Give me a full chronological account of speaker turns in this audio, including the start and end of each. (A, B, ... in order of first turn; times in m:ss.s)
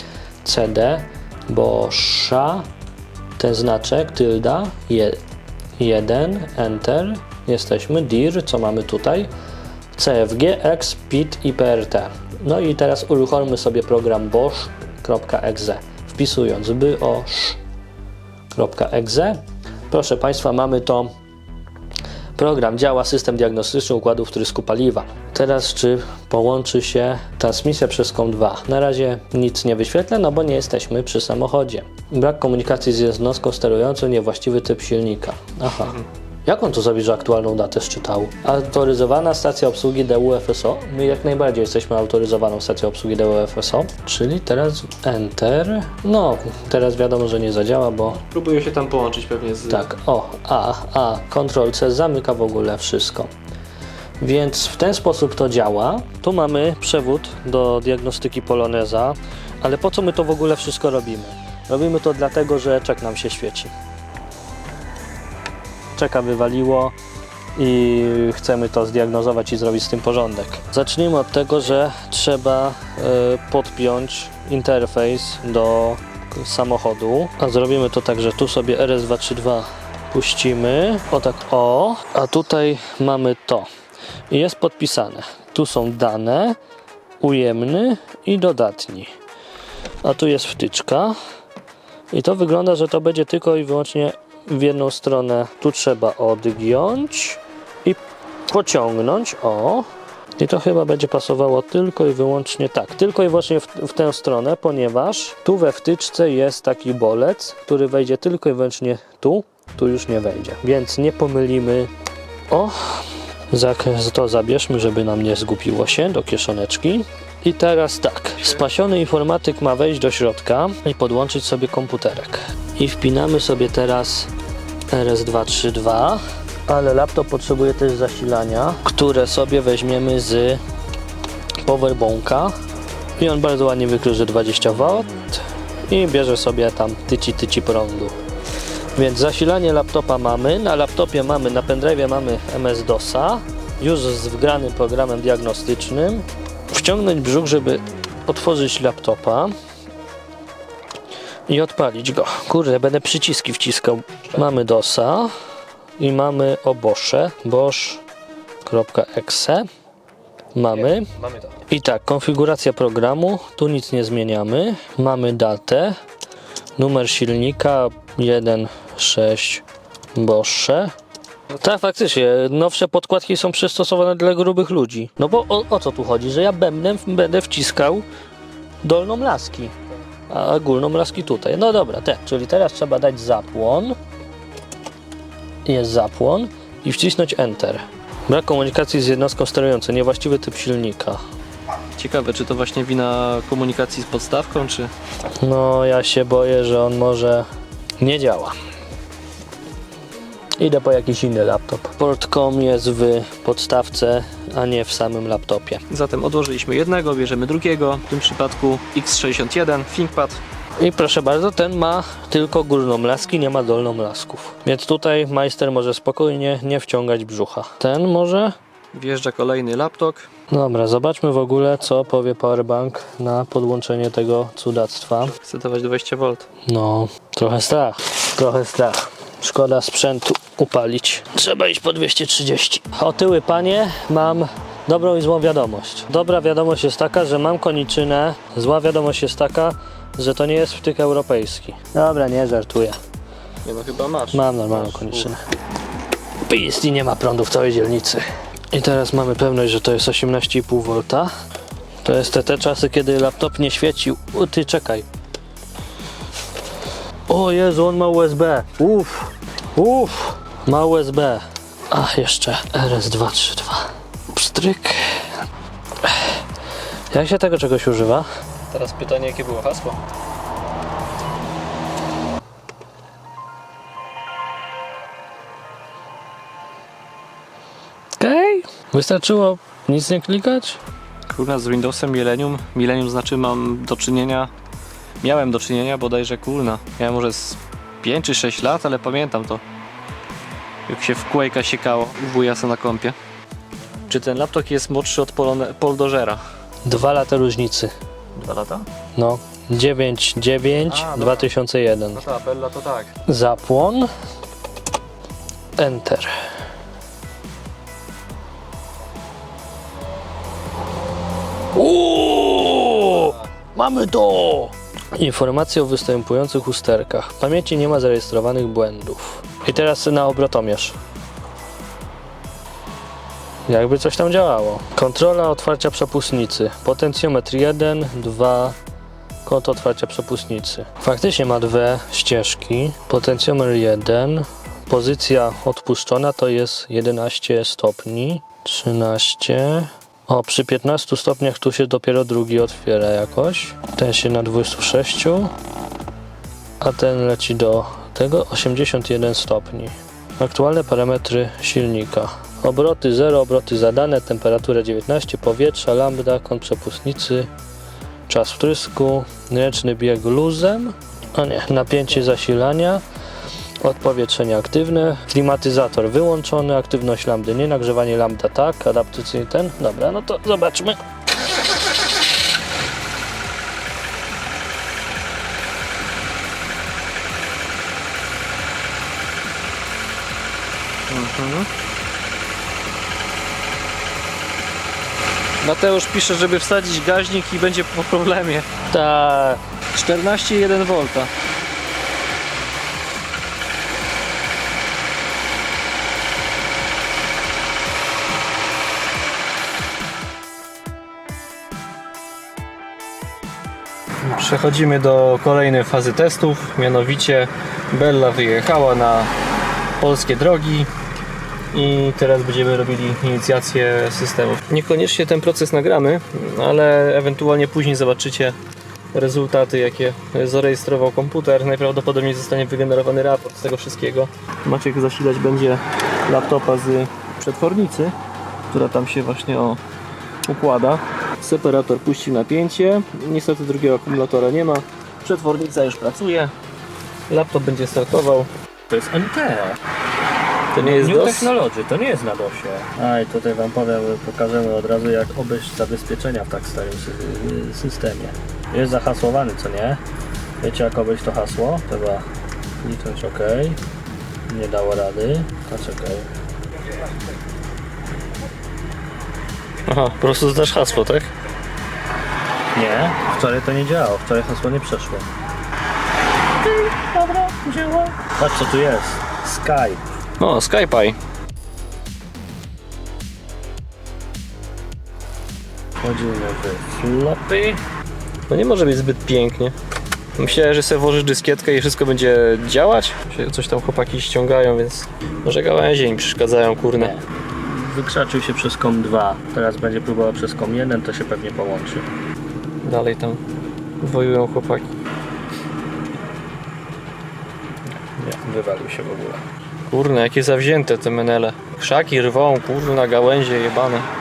0:00.4-0:02.7 A
0:03.4-0:05.2 A
0:05.8-0:09.3 A
0:09.9-0:17.6 A
0:18.5-0:21.1 A
0:22.4-0:48.2 A
0:48.2-0:49.9 B
0:49.7-0:53.3 A
0:54.2-1:03.7 A
1:06.0-1:06.9 A
1:07.6-1:23.7 A
1:24.3-1:26.6 A
1:27.2-1:29.1 A
1:30.0-1:31.2 A
1:32.1-1:38.0 A
1:38.5-1:39.9 A
1:40.4-1:51.9 A
1:52.5-2:04.3 A
2:04.9-2:10.6 A
2:11.6-2:12.5 A
2:13.2-2:18.2 A
2:19.0-2:29.5 A
2:31.5-2:35.3 A
2:36.0-2:38.0 A
2:38.6-2:39.7 A
2:40.5-2:41.1 A
2:40.7-2:41.6 B
2:41.7-2:46.0 A
2:46.8-2:49.6 A
2:50.1-2:50.9 A
2:51.6-2:58.0 A
2:58.8-2:59.7 A
3:00.3-3:04.0 A
3:05.6-3:11.2 A
3:12.0-3:14.9 B
3:15.4-3:17.5 A
3:18.0-3:18.5 A
3:20.6-3:25.8 A
3:25.9-3:30.4 B
3:30.8-3:38.6 A
3:38.9-3:40.3 B
3:40.5-3:45.4 A
3:45.4-3:46.4 B
3:46.6-4:03.0 A
4:03.6-4:05.3 B
4:04.3-4:05.4 A
4:06.4-4:11.3 A
4:12.0-4:15.0 A
4:17.3-4:25.3 A
4:26.0-4:26.3 A
4:27.1-4:28.3 A
4:28.7-4:30.0 B
4:38.2-4:40.8 A
4:41.3-4:44.5 B
4:45.2-4:49.6 B
4:50.9-4:53.1 B
4:54.1-4:56.4 B
4:56.8-4:57.9 A
4:58.4-4:58.9 B
4:59.2-5:02.2 A
5:00.8-5:01.5 B
5:02.1-5:03.2 B
5:03.2-5:04.1 A
5:05.8-5:06.3 A
5:11.7-5:21.0 A
5:23.7-5:28.8 A
5:29.4-5:45.5 A
5:46.8-5:57.5 A
5:58.3-6:03.0 A
6:03.8-6:11.0 A
6:21.1-6:21.7 B
6:25.6-6:28.7 B
6:28.9-6:29.6 A
6:29.9-6:31.3 B
6:44.3-6:49.3 B
6:50.0-6:50.9 B
6:51.7-6:58.6 B
6:59.1-7:08.1 B
7:08.7-7:09.8 B
7:10.4-7:16.5 B
7:17.3-7:18.5 B
7:18.9-7:19.8 A
7:20.7-7:21.5 B
7:20.8-7:30.0 A
7:30.6-7:32.2 A
7:32.8-7:33.8 A
7:34.5-7:36.3 A
7:39.9-7:41.3 B
7:42.7-7:45.3 A
7:46.6-7:50.0 A
7:50.4-7:51.2 B
7:56.0-7:57.8 A
7:58.5-7:59.7 B
8:00.3-8:07.1 B
8:07.0-8:12.0 A
8:12.8-8:13.4 B
8:14.0-8:14.9 B
8:18.2-8:19.4 A
8:19.9-8:24.1 B